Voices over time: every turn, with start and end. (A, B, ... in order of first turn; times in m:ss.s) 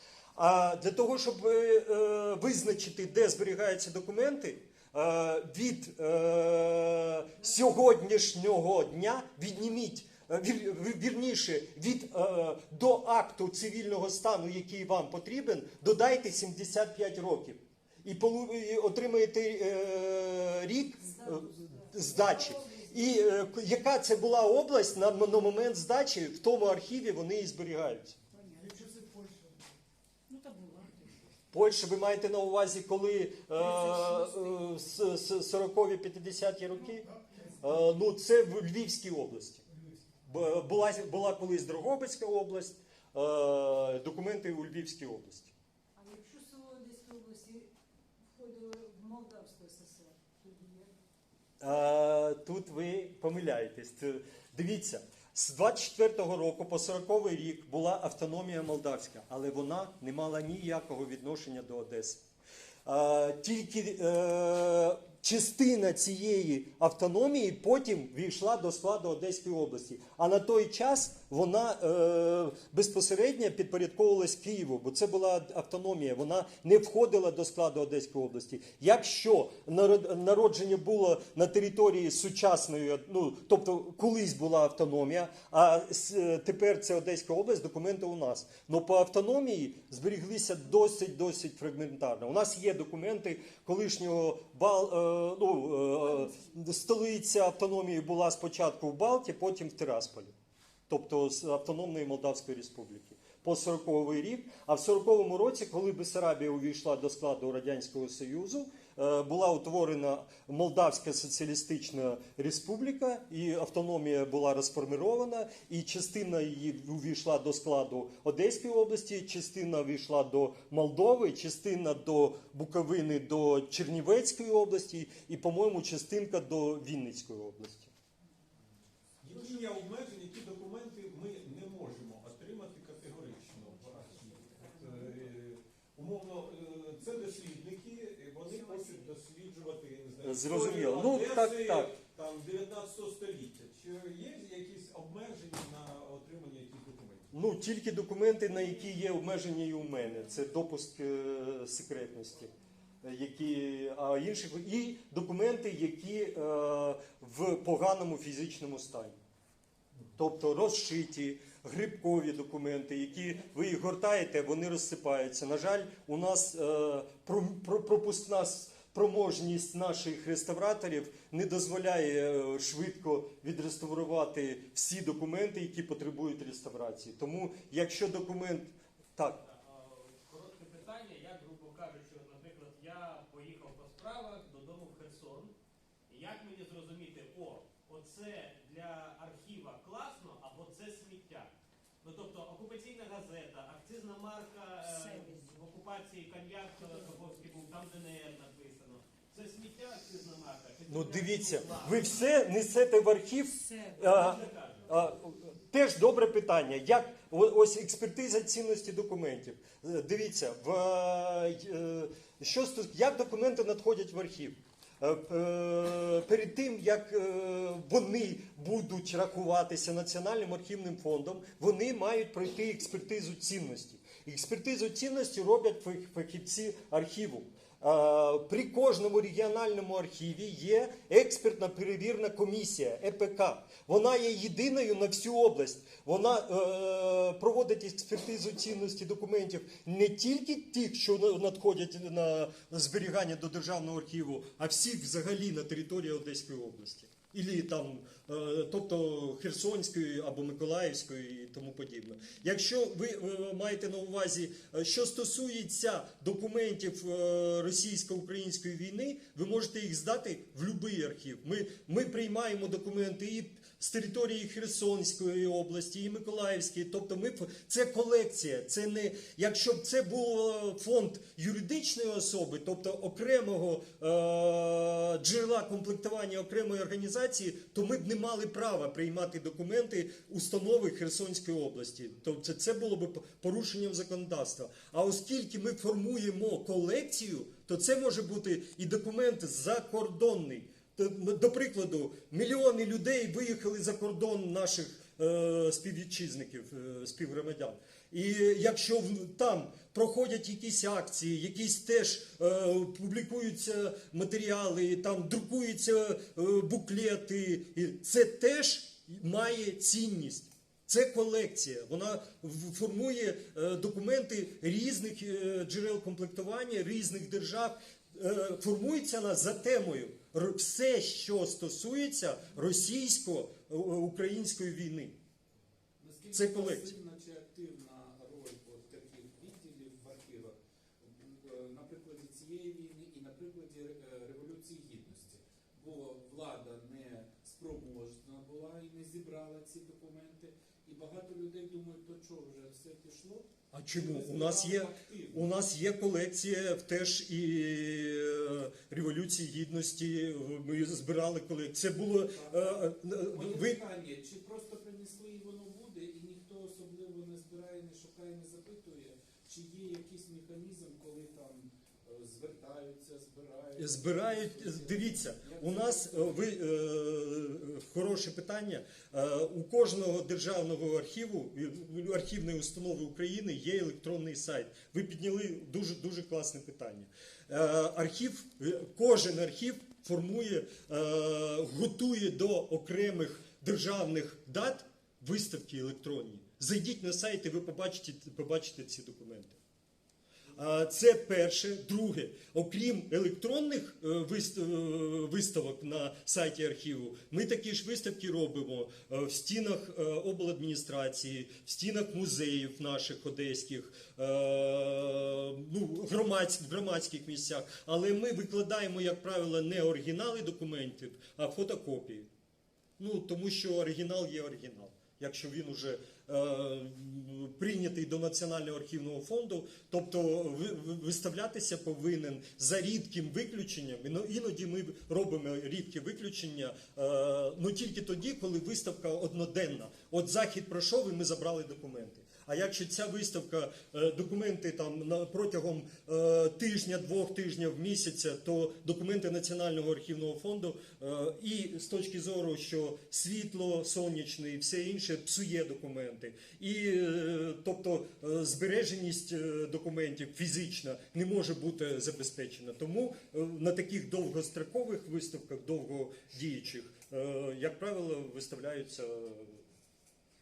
0:00.4-0:28.2 A
0:21.1-0:23.2 B
0:28.3-0:29.6 B
0:30.3-0:31.2 B
0:31.5-0:39.6 A
0:33.8-0:34.1 B
0:40.2-0:45.6 A
0:46.0-0:47.7 B
0:48.2-0:51.0 B
0:51.6-1:02.2 A
1:02.9-1:40.3 A
1:40.9-2:07.9 A
2:09.2-2:27.3 C
2:14.5-2:15.3 B
2:18.7-2:19.0 B
2:20.2-2:21.9 A
2:27.3-2:32.5 A
2:33.0-2:39.2 A
2:40.2-2:59.4 A
2:59.4-3:05.5 D
3:06.1-3:11.5 D
3:12.0-3:22.2 D
3:14.9-3:15.5 B
3:20.9-5:25.2 A
3:23.7-3:24.0 B
3:24.0-3:24.9 D
5:26.0-5:45.5 E
5:26.3-5:27.0 A
5:43.7-5:53.8 A
5:52.2-6:06.5 E
6:03.8-6:29.6 A
6:30.6-6:52.3 A
6:53.0-7:39.6 A